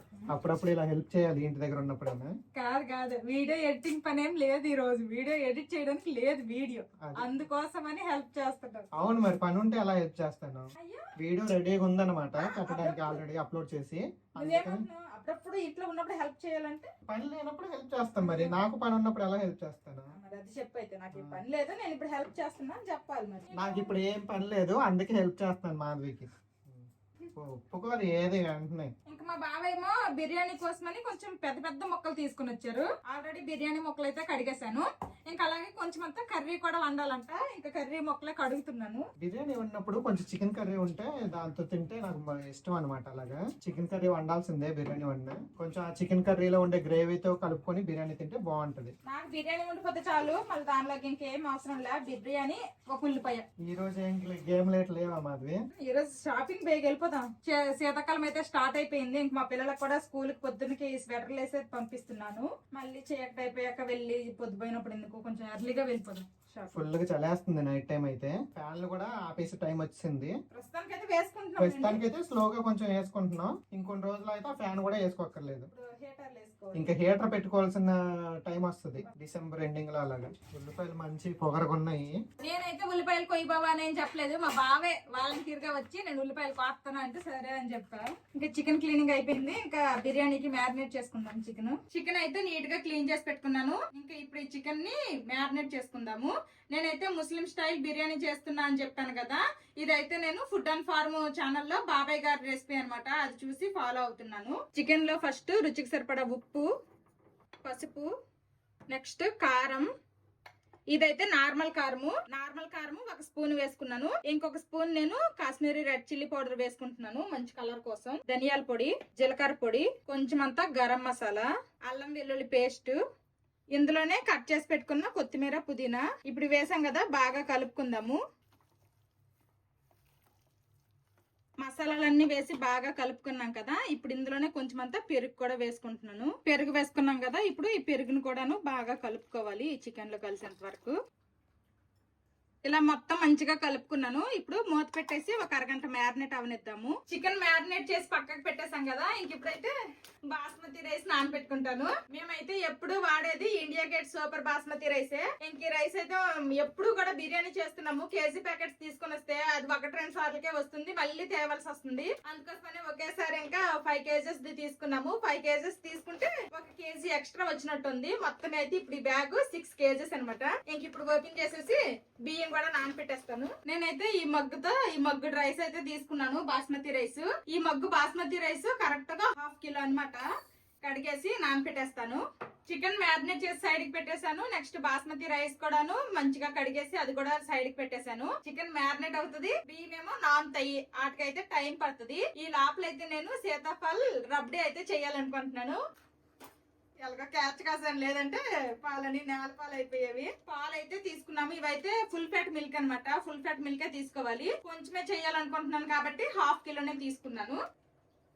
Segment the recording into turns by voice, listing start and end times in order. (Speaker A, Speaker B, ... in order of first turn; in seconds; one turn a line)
Speaker A: 0.3-2.3
Speaker B: 2.5-8.8
Speaker A: 7.0-7.5
Speaker A: 8.9-14.8
Speaker B: 10.8-11.1
Speaker B: 12.4-13.2
Speaker B: 14.4-16.9
Speaker A: 17.1-20.1
Speaker B: 18.2-18.6
Speaker B: 20.1-23.9
Speaker A: 21.1-21.4
Speaker A: 23.5-28.9
Speaker B: 29.1-39.0
Speaker A: 39.2-48.9
Speaker B: 49.1-53.5
Speaker A: 53.6-55.6
Speaker B: 55.8-66.7
Speaker A: 66.7-70.3
Speaker B: 70.5-72.0
Speaker A: 71.6-75.7
Speaker B: 75.7-76.9
Speaker A: 76.7-82.1
Speaker B: 82.4-106.7
Speaker B: 107.6-108.1
Speaker B: 108.9-109.9
Speaker B: 110.9-123.0
Speaker B: 123.7-128.2
Speaker B: 131.6-140.9
Speaker B: 142.6-149.7
Speaker B: 150.3-180.2
Speaker B: 180.8-195.8
Speaker B: 197.0-207.6